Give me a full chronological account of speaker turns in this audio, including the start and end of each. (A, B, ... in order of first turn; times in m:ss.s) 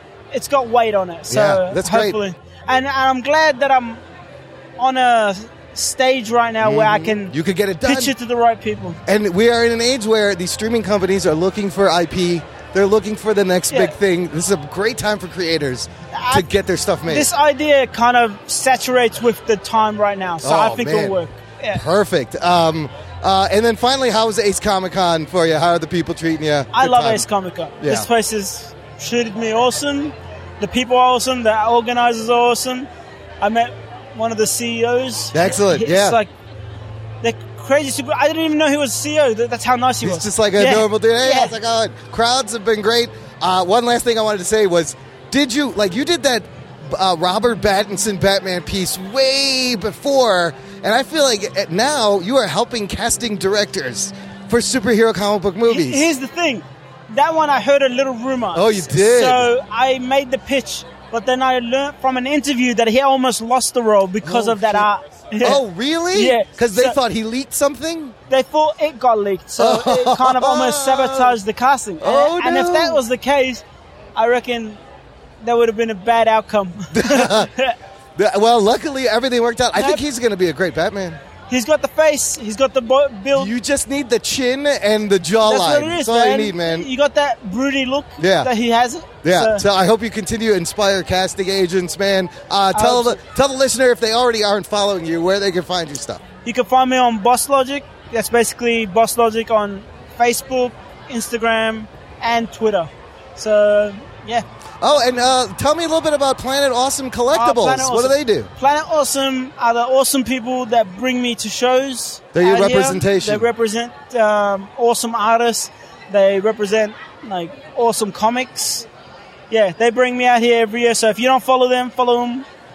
0:00.3-0:04.0 A
0:01.3-0:02.2 B
0:04.8-0:09.0 A
0:06.6-0:08.1 B
0:09.0-0:17.3 B
0:13.7-0:14.0 A
0:16.1-0:16.5 A
0:17.0-0:21.8 A
0:20.4-0:21.2 B
0:21.7-0:27.2 B
0:26.7-0:32.9 A
0:27.8-0:28.1 B
0:33.4-0:36.3 A
0:35.3-0:36.2 B
0:37.2-0:41.5 A
0:40.0-0:56.0 B
0:55.7-1:05.6 A
0:58.5-0:59.5 B
1:04.2-1:04.9 B
1:05.4-1:08.1 B
1:06.1-1:07.0 A
1:08.3-1:13.6 A
1:09.6-1:11.4 B
1:12.0-1:13.0 B
1:14.2-1:14.8 A
1:15.4-1:17.7 A
1:16.9-1:17.5 B
1:18.2-1:21.2 B
1:19.7-1:20.0 A
1:21.5-1:23.5 A
1:23.3-1:26.9 B
1:25.4-1:29.6 A
1:28.2-1:28.5 B
1:29.2-1:36.2 B
1:32.7-1:33.2 A
1:36.4-1:44.4 A
1:44.8-1:48.5 B
1:47.3-1:58.8 A
1:52.3-1:53.5 B
1:59.5-2:02.4 A